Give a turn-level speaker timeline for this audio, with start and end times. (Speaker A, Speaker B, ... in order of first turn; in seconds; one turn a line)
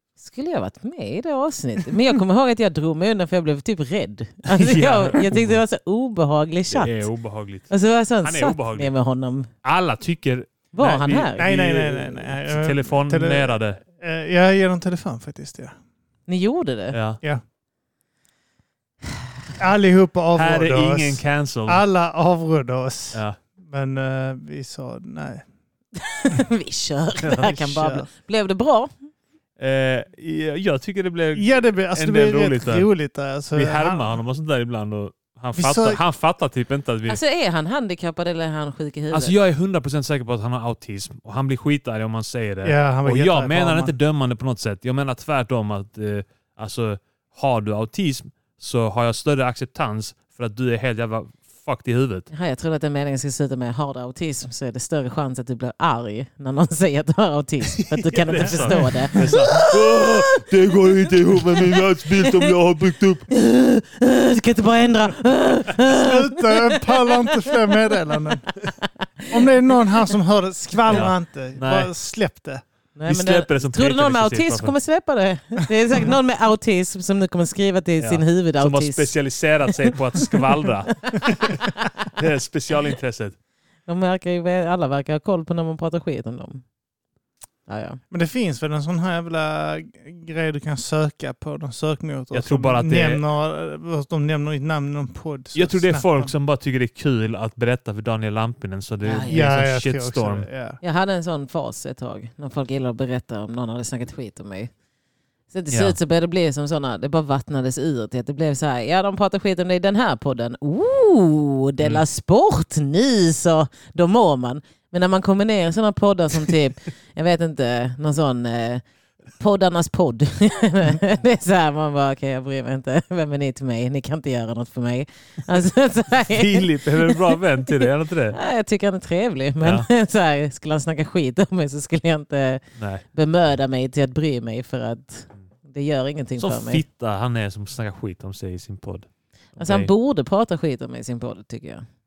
Speaker A: 0.2-7.1
Speaker B: 4.5-5.6
Speaker B: 6.7-7.7
Speaker A: 7.7-9.5
Speaker B: 8.2-8.9
Speaker B: 9.6-13.8
Speaker A: 10.7-11.4
Speaker C: 11.4-15.8
Speaker A: 16.3-17.0
Speaker B: 16.9-17.2
Speaker C: 19.6-25.4
Speaker B: 20.4-21.8
Speaker A: 26.0-28.9
Speaker C: 27.2-28.1
Speaker B: 29.6-32.9
Speaker C: 31.4-34.2
Speaker B: 33.5-37.2
Speaker C: 35.6-36.0
Speaker A: 37.1-39.4
Speaker B: 39.1-52.3
Speaker C: 42.6-43.9
Speaker A: 52.3-60.5
Speaker B: 57.8-63.3
Speaker C: 58.4-59.5
Speaker A: 61.0-62.5
Speaker A: 63.3-67.7
Speaker C: 65.9-68.5
Speaker A: 68.8-69.5
Speaker C: 69.3-72.6
Speaker B: 70.9-71.9
Speaker A: 73.0-79.1
Speaker B: 73.1-74.8
Speaker B: 78.0-83.3
Speaker A: 79.9-80.4
Speaker A: 81.1-82.1
Speaker A: 83.9-86.6
Speaker A: 87.7-88.0
Speaker C: 88.1-96.3
Speaker B: 92.3-93.2
Speaker B: 95.5-100.5
Speaker A: 99.0-99.5
Speaker C: 99.3-100.8
Speaker A: 100.8-104.7
Speaker A: 105.5-118.8
Speaker B: 105.7-106.0
Speaker A: 119.4-132.6
Speaker B: 126.1-128.4
Speaker B: 129.6-129.9
Speaker B: 132.8-133.0
Speaker A: 133.1-136.8
Speaker B: 136.4-139.9
Speaker A: 139.6-141.8